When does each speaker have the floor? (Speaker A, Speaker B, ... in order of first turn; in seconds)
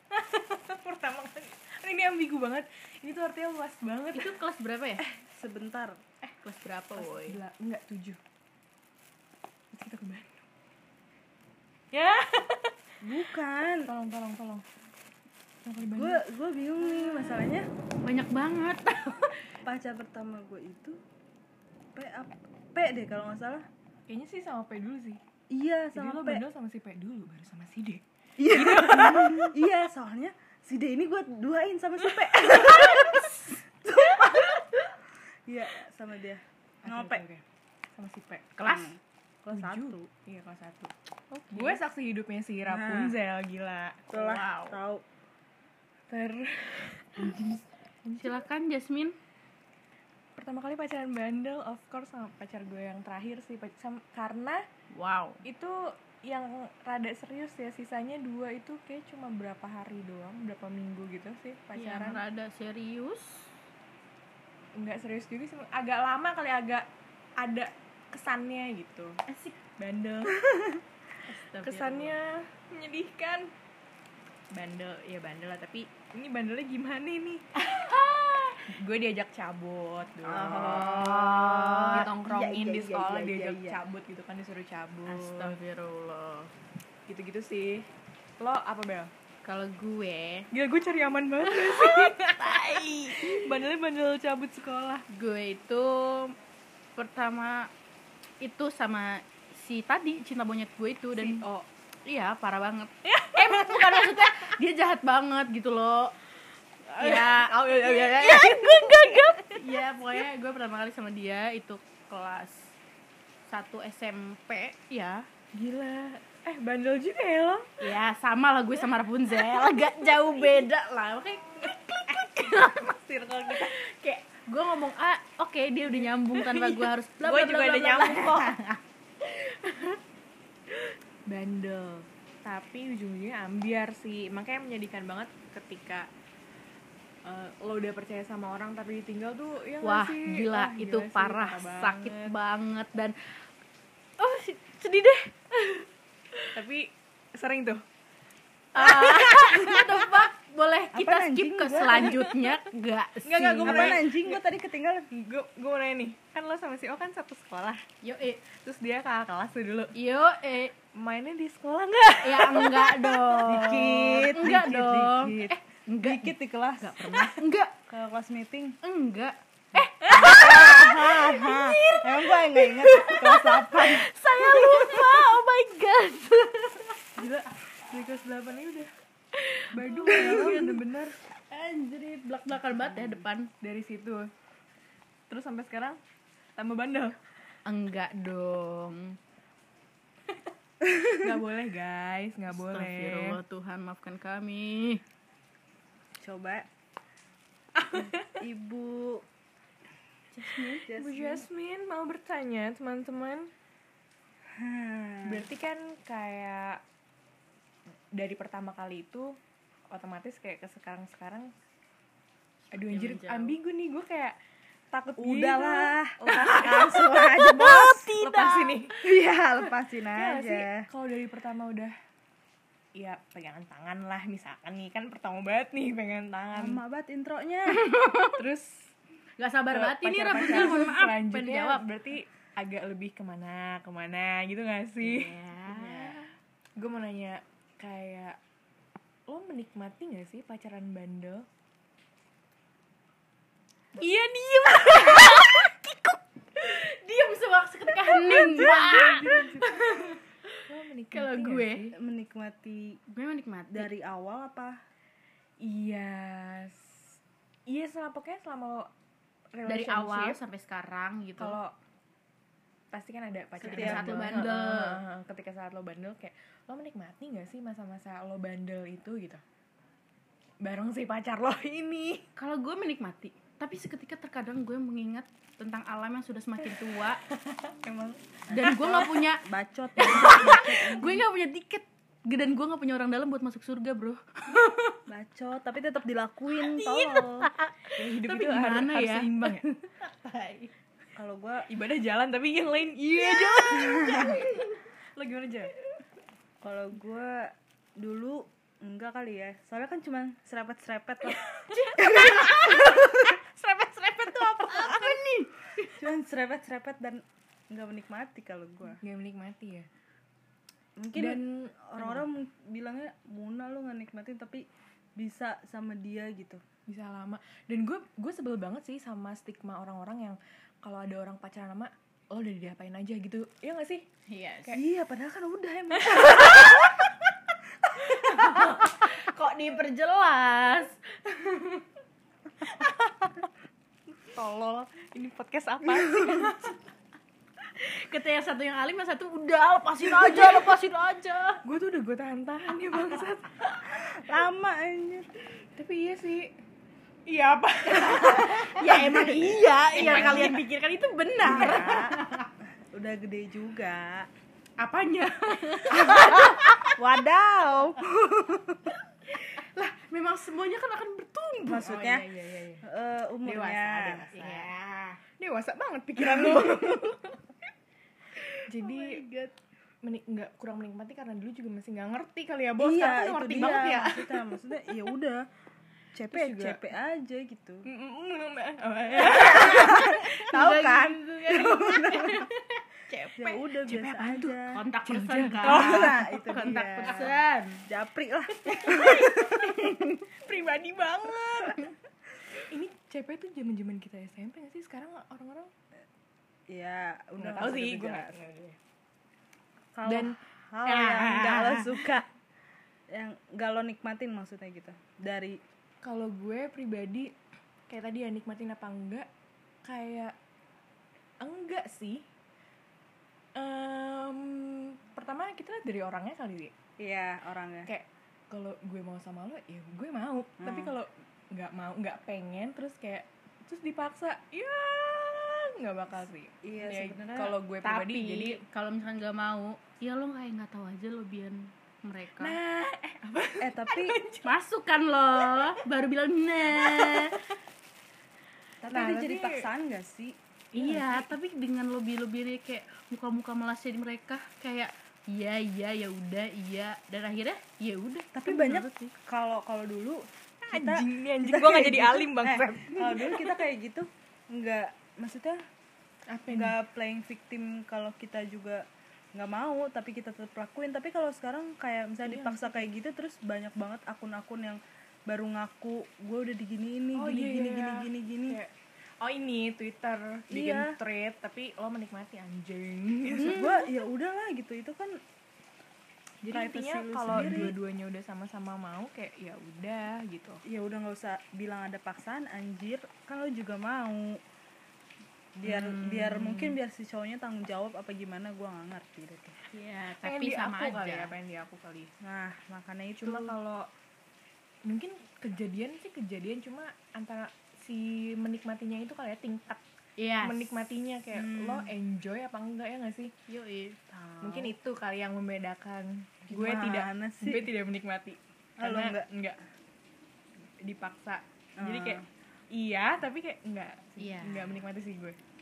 Speaker A: 0.1-4.4, 6.9-8.2, 9.7-10.4, 11.9-12.7, 13.8-14.7, 15.6-16.2, 16.8-17.4, 24.1-25.2, 25.9-29.5, 36.8-37.4, 38.0-38.6, 39.5-40.9, 41.5-44.1, 46.1-48.4, 50.4-54.6, 55.4-62.2, 64.8-66.9, 67.4-69.2, 69.8-70.4, 71.3-73.5, 74.5-77.6, 78.7-81.3, 81.9-85.5, 87.1-87.9, 88.4-89.1, 90.5-95.0, 101.2-101.7, 103.1-104.5, 106.9-109.8, 115.5-117.7, 119.4-120.7, 122.7-123.7, 125.9-128.6, 131.3-136.1, 137.2-142.4, 146.5-147.8, 148.8-150.2, 151.8-152.5, 153.2-154.4, 155.1-157.8, 158.5-159.9, 161.0-163.4, 177.9-178.9, 179.7-181.2, 183.6-184.3, 185.3-186.0, 186.6-187.2, 191.2-193.4, 197.9-198.3, 200.9-203.5, 205.2-206.8, 208.1-209.4, 209.9-211.5, 212.7-214.4, 214.9-219.0, 220.2-221.9, 223.0-226.8, 228.4-228.9, 229.7-238.4, 239.3-241.4, 247.9-252.0, 255.6-258.9, 259.5-260.4, 261.4-261.8, 262.9-269.4, 270.6-272.2, 288.0-289.7, 291.7-295.7, 309.0-309.9, 311.1-312.3, 316.9-324.1, 334.2-336.8, 341.6-343.8, 345.8-346.5, 347.3-349.3, 349.9-350.6, 351.4-352.0, 361.9-362.8, 363.4-364.7, 365.4-367.2, 368.7-369.2, 370.0-374.4, 376.3-376.8, 377.9-380.5, 383.8-386.3, 388.9-389.8, 390.3-391.9, 392.7-395.7, 397.4-398.8, 400.1-402.1, 406.0-407.3, 407.9-409.3, 409.9-410.3, 411.4-412.2, 413.6-416.7, 417.9-428.6, 432.4-434.5, 435.3-435.7, 436.7-437.3, 438.9-439.7, 440.7-441.4, 450.7-453.6, 456.3-456.8, 462.2-462.9, 467.1-468.7, 469.2-473.9, 476.4-480.6, 490.2-492.1, 493.2-493.7, 494.9-499.8, 500.4-503.3, 504.4-509.6, 510.8-515.4
Speaker B: 4.1-5.0, 6.3-7.4, 18.0-19.4, 33.0-33.3, 38.6-39.0, 41.3-41.8, 44.1-44.8, 48.2-49.2, 54.9-55.4, 61.8-63.5, 69.3-69.6, 71.3-72.2, 77.6-78.6, 80.6-82.1, 85.1-86.5, 89.4-90.5, 91.5-93.4, 95.1-96.4, 97.0-97.7, 98.4-101.4, 102.0-106.1, 107.0-112.7, 113.5-115.2, 117.8-128.6, 139.8-143.4, 144.2-146.6, 148.7-154.0, 158.0-158.4, 159.9-160.8, 162.2-167.7, 168.8-177.1, 179.4-180.9, 181.5-183.5, 187.7-189.2, 192.5-195.0, 200.3-200.9, 212.7-213.6, 217.4-218.9, 227.7-228.3, 229.4-231.9, 235.0-236.2, 244.0-250.6, 251.1-251.9, 253.1-253.9, 259.7-261.6, 263.6-265.0, 272.4-277.2, 278.5-279.4, 280.0-285.0, 286.6-290.7, 293.3-293.8, 301.3-306.0, 324.3-324.8, 328.0-331.0, 337.7-341.6, 347.8-352.5, 354.8-356.7, 359.3-362.3, 364.3-365.2, 366.2-367.0, 368.5-369.5, 379.2-383.6, 384.7-387.9, 388.7-390.2, 427.8-432.6, 434.4-437.3, 440.8-449.1, 485.7-486.8, 489.7-491.3, 500.2-500.8, 503.5-504.0, 514.2-514.8
Speaker C: 5.3-6.0, 13.0-13.9, 15.9-17.7, 19.7-21.0, 21.9-23.7, 25.5-26.4, 28.4-34.6, 35.5-37.2, 38.6-40.1, 42.7-43.2, 44.1-45.0, 80.2-83.8, 150.9-152.3, 153.7-155.1, 163.4-168.8, 169.8-175.0, 177.2-177.5, 180.0-180.6, 196.2-196.7, 197.9-199.2, 200.9-201.4, 204.6-205.4, 215.2-218.1, 219.0-220.9, 226.5-227.9, 251.9-253.0, 253.7-254.8, 263.6-264.4, 278.5-281.2, 285.1-287.5, 291.1-291.7, 293.8-294.4, 296.6-301.4, 302.0-303.1, 306.0-309.0, 311.0-314.6, 315.2-316.6, 324.7-326.7, 343.9-345.3, 350.0-350.3, 351.4-352.1, 352.9-354.3, 355.9-358.9, 361.7-362.3, 362.8-364.3, 372.8-375.4, 376.1-377.8, 379.4-382.5, 383.4-384.8, 385.6-389.7, 396.7-398.4, 399.9-402.3, 403.1-405.6, 417.0-417.9, 420.6-420.9, 426.6-427.6, 433.6-434.2, 438.8-440.4, 448.3-455.6, 456.5-458.8, 459.4-468.6, 470.5-470.9, 473.4-475.2, 476.5-477.8, 480.7-484.4, 485.6-489.6, 492.2-493.8, 501.3-501.9, 504.1-504.8, 506.5-507.7, 508.8-509.3, 511.8-512.2